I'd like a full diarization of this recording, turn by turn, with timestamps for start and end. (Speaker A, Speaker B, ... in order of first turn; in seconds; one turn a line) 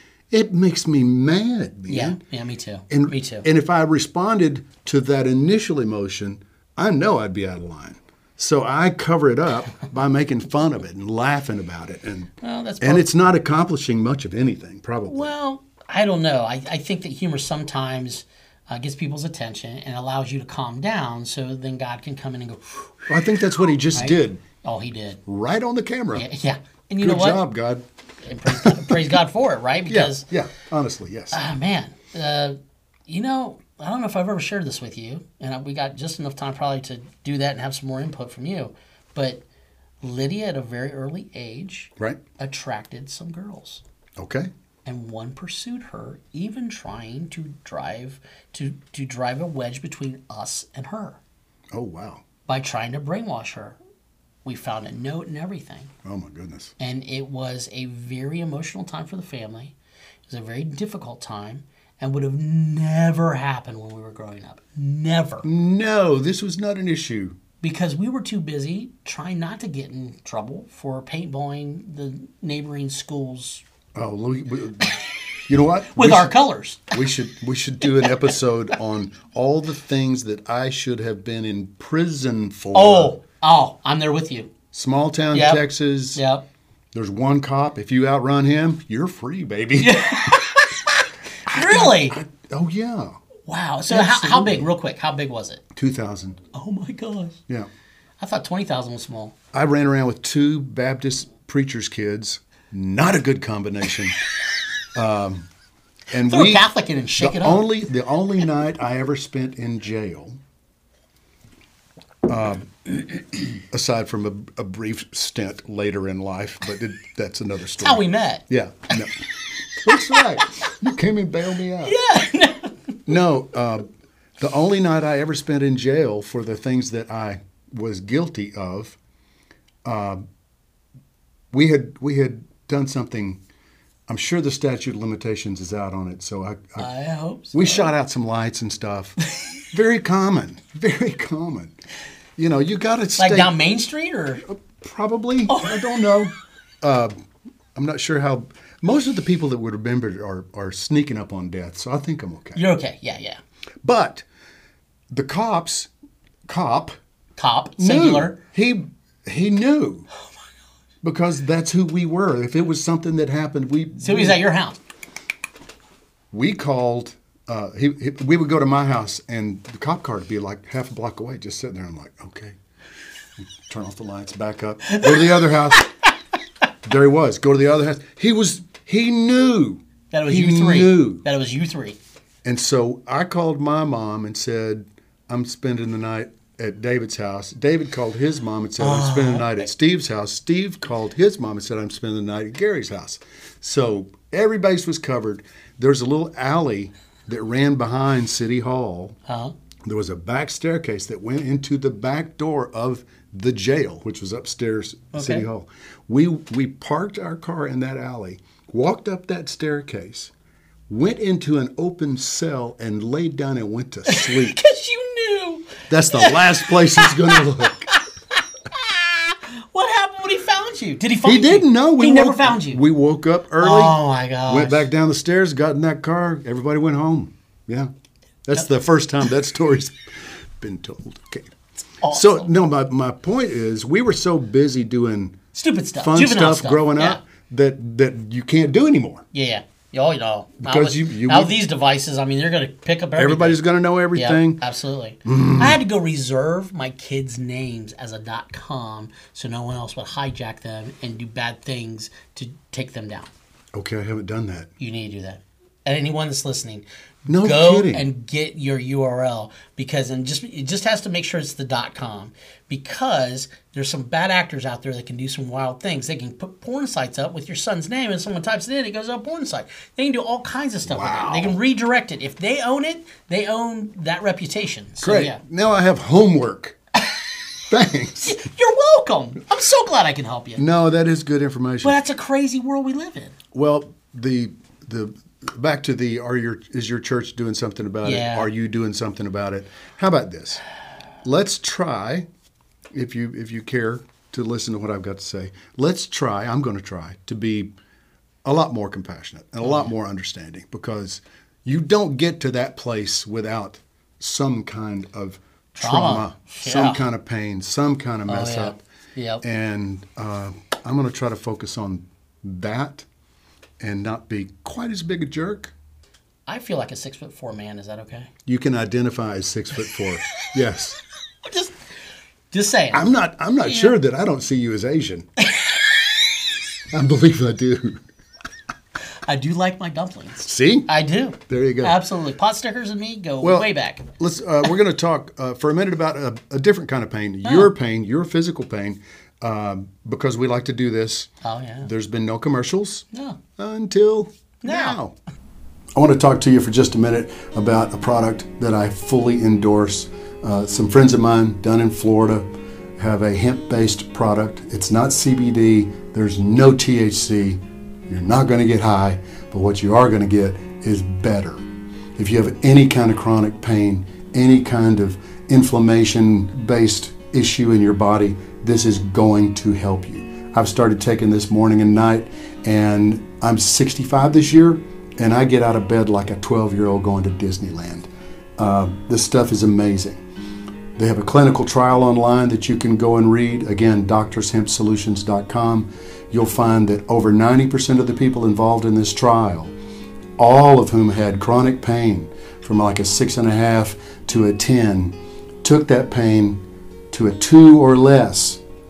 Speaker A: 0.3-2.2
Speaker B: 1.9-3.5
Speaker A: 2.9-15.3
Speaker B: 12.4-13.1
Speaker B: 15.1-23.1
Speaker A: 23.1-24.4
Speaker B: 23.9-25.2
Speaker A: 25.3-26.3
Speaker B: 26.1-27.4
Speaker A: 27.0-27.8
Speaker B: 28.2-30.3
Speaker A: 28.5-29.0
Speaker A: 29.9-31.4
Speaker B: 31.3-32.6
Speaker B: 33.1-39.4
Speaker B: 40.0-43.8
Speaker A: 44.2-44.5
Speaker B: 44.9-51.2
Speaker A: 51.7-52.2
Speaker B: 52.5-53.8
Speaker B: 54.5-55.9
Speaker A: 56.0-56.7
Speaker B: 56.8-59.8
Speaker B: 60.3-65.5
Speaker A: 65.4-67.4
Speaker B: 67.6-73.6
Speaker A: 74.0-76.4
Speaker B: 75.9-77.0
Speaker A: 76.9-83.2
Speaker B: 82.7-84.5
Speaker A: 84.7-86.2
Speaker B: 85.3-85.6
Speaker B: 86.2-86.4
Speaker A: 86.9-90.3
Speaker B: 89.8-90.9
Speaker B: 91.5-92.2
Speaker A: 91.5-93.2
Speaker B: 93.5-95.6
Speaker A: 93.9-94.7
Speaker A: 95.7-96.4
Speaker B: 96.5-97.4
Speaker B: 98.2-99.3
Speaker A: 99.5-104.2
Speaker A: 105.0-105.5
Speaker A: 106.1-110.4
Speaker B: 106.2-107.6
Speaker A: 112.3-122.0
Speaker B: 117.8-118.4
Speaker B: 121.8-122.8
Speaker A: 123.1-123.9
Speaker A: 124.4-129.0
Speaker A: 129.8-130.2
Speaker A: 131.5-133.4
Speaker A: 134.1-136.9
Speaker B: 136.8-137.9
Speaker A: 137.5-139.2
Speaker A: 139.7-141.7
Speaker A: 142.4-143.6
Speaker B: 143.2-144.4
Speaker A: 144.5-147.1
Speaker B: 145.5-145.8
Speaker A: 147.8-152.6
Speaker B: 152.6-153.4
Speaker A: 153.8-154.3
Speaker A: 155.1-155.9
Speaker A: 156.5-157.0
Speaker B: 157.4-158.4
Speaker A: 157.8-160.1
Speaker A: 161.0-164.4
Speaker B: 164.0-164.8
Speaker A: 166.3-172.6
Speaker A: 173.7-175.9
Speaker B: 174.9-175.3
Speaker A: 176.8-181.2
Speaker B: 180.1-182.0
Speaker A: 182.4-199.2
Speaker B: 188.8-189.5
Speaker B: 199.3-199.5
Speaker A: 199.8-210.3
Speaker B: 205.1-205.5
Speaker A: 210.9-214.6
Speaker B: 214.1-218.0
Speaker A: 215.9-217.9
Speaker B: 218.7-222.8
Speaker A: 221.2-227.9
Speaker B: 223.6-224.9
Speaker A: 228.5-230.0
Speaker A: 230.6-231.5
Speaker B: 232.0-232.5
Speaker A: 232.1-235.4
Speaker B: 235.5-237.2
Speaker A: 236.0-239.2
Speaker B: 239.3-243.6
Speaker A: 240.6-241.6
Speaker A: 243.2-244.6
Speaker B: 244.1-253.3
Speaker A: 245.2-245.8
Speaker A: 253.7-254.7
Speaker B: 254.8-275.4
Speaker A: 257.3-258.1
Speaker A: 270.9-271.6
Speaker A: 275.0-276.8
Speaker A: 277.7-278.4
Speaker B: 278.2-280.6
Speaker A: 280.6-282.0
Speaker B: 281.8-283.4
Speaker A: 283.5-290.6
Speaker B: 288.0-288.5
Speaker A: 291.2-292.3
Speaker A: 292.9-297.7
Speaker A: 298.4-308.8
Speaker B: 299.6-299.9
Speaker B: 305.8-307.0
Speaker B: 308.3-309.4
Speaker A: 309.4-313.1
Speaker A: 313.8-315.7
Speaker B: 316.5-318.3
Speaker A: 318.5-321.0
Speaker B: 321.4-321.8
Speaker B: 322.5-323.1
Speaker A: 322.9-325.3
Speaker B: 323.6-323.9
Speaker A: 326.9-328.0
Speaker B: 329.2-334.1
Speaker A: 330.4-330.9
Speaker A: 331.4-332.0
Speaker A: 333.4-341.3
Speaker B: 337.4-337.7
Speaker B: 341.4-341.9
Speaker A: 341.8-343.1
Speaker B: 343.1-343.4
Speaker A: 343.6-345.1
Speaker B: 344.6-345.0
Speaker A: 346.0-352.5
Speaker A: 353.0-361.6
Speaker A: 362.2-380.2
Speaker A: 381.0-389.7
Speaker A: 390.4-398.6